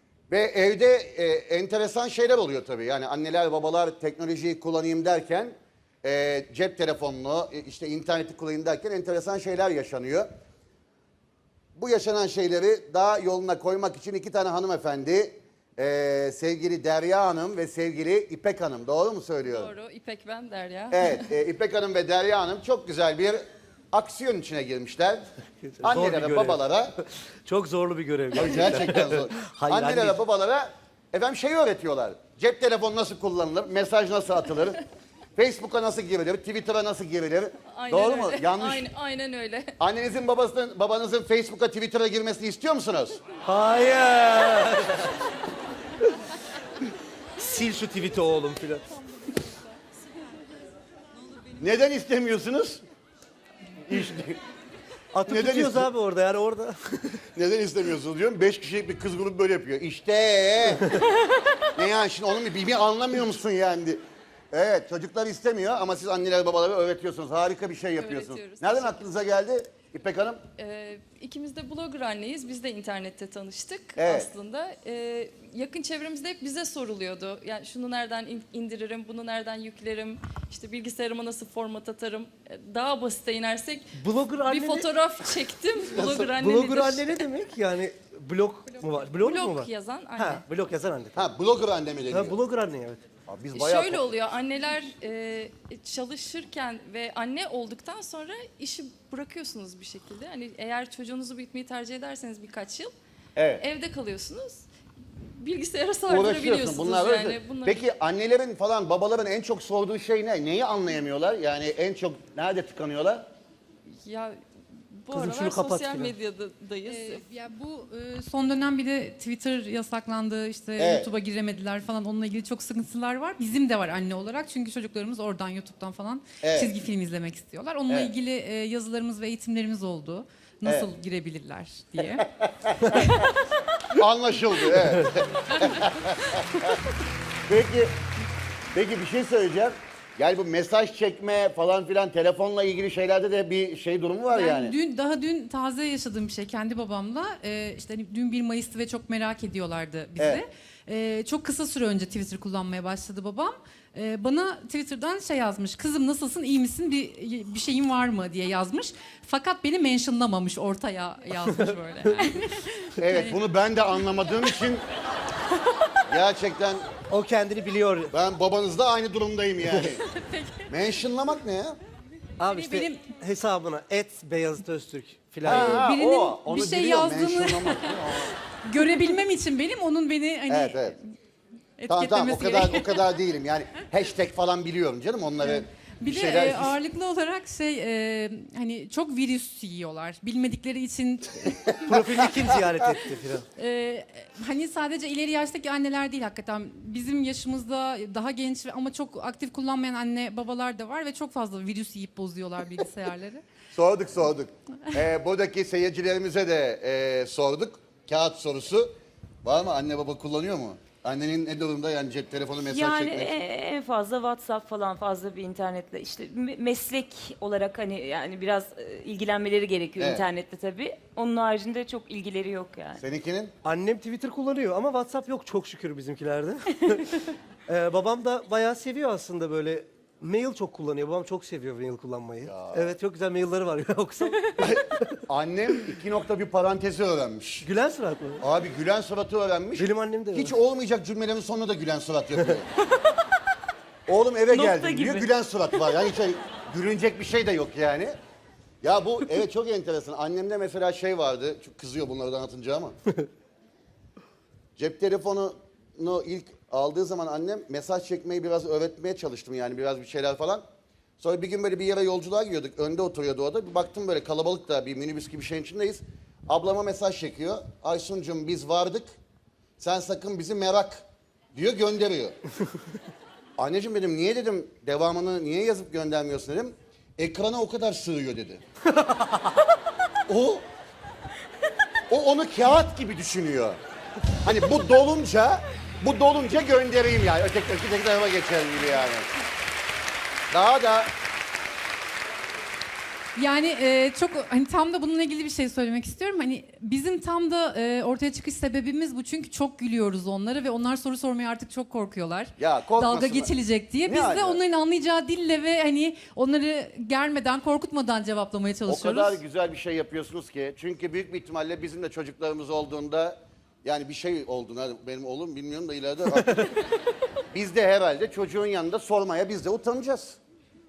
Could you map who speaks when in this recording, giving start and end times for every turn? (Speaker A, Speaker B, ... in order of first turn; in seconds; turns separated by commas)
Speaker A: 0.3-10.3, Speaker A: 11.8-19.7, Speaker B: 19.4-21.1, Speaker A: 20.9-23.4, Speaker A: 23.9-25.2, Speaker C: 25.6-30.2, Speaker A: 25.8-26.9, Speaker A: 28.3-34.8, Speaker A: 35.4-38.9, Speaker B: 37.7-39.7, Speaker A: 39.8-43.2, Speaker C: 43.5-45.1, Speaker C: 47.4-48.9, Speaker A: 51.6-52.8, Speaker A: 53.8-54.4, Speaker C: 55.1-57.2, Speaker A: 55.3-55.9, Speaker A: 57.4-61.0, Speaker A: 61.7-70.4, Speaker B: 68.0-69.0, Speaker B: 70.6-83.9, Speaker A: 74.0-74.3, Speaker C: 84.0-84.9, Speaker B: 84.4-87.2, Speaker C: 85.9-91.3, Speaker B: 89.2-90.5, Speaker A: 91.2-92.4, Speaker C: 92.1-93.0, Speaker A: 93.3-94.1, Speaker B: 93.5-102.9, Speaker A: 103.4-103.6, Speaker B: 103.6-104.7, Speaker B: 105.3-107.8, Speaker A: 106.1-113.2, Speaker B: 114.0-114.4, Speaker B: 114.9-117.2, Speaker C: 115.1-116.1, Speaker D: 116.9-132.3, Speaker A: 120.8-121.1, Speaker A: 126.4-126.7, Speaker A: 132.6-133.0, Speaker D: 132.9-133.3, Speaker A: 133.9-136.7, Speaker A: 137.5-137.9, Speaker A: 138.7-144.8, Speaker D: 144.3-163.4, Speaker A: 163.0-164.8, Speaker A: 166.1-166.9, Speaker C: 167.1-168.1, Speaker A: 168.1-170.1, Speaker D: 170.2-170.5, Speaker A: 170.7-171.8, Speaker C: 172.4-175.9, Speaker D: 172.5-173.0, Speaker D: 175.4-178.0, Speaker A: 175.4-178.4, Speaker D: 178.6-181.0, Speaker A: 180.5-181.0, Speaker D: 181.8-183.1, Speaker A: 181.9-186.8, Speaker D: 185.4-192.4, Speaker C: 191.9-193.5, Speaker D: 193.6-203.4, Speaker A: 203.7-208.9, Speaker A: 209.4-213.3, Speaker E: 212.7-223.0, Speaker A: 220.0-220.2, Speaker A: 223.0-223.5, Speaker C: 223.7-234.8, Speaker A: 232.4-232.9, Speaker A: 234.6-237.7, Speaker C: 237.6-238.4, Speaker A: 238.4-242.7, Speaker C: 239.8-240.5, Speaker A: 244.1-248.2, Speaker E: 244.5-246.0, Speaker A: 248.8-252.9, Speaker A: 254.8-260.6, Speaker A: 261.2-269.2, Speaker A: 269.8-272.4, Speaker A: 273.6-278.6, Speaker C: 279.0-279.4, Speaker A: 280.3-280.6, Speaker A: 282.1-283.8, Speaker A: 284.4-289.3, Speaker A: 290.5-291.1, Speaker D: 293.4-309.4, Speaker A: 302.6-303.5, Speaker A: 304.0-304.6, Speaker A: 308.9-316.8, Speaker A: 317.5-320.4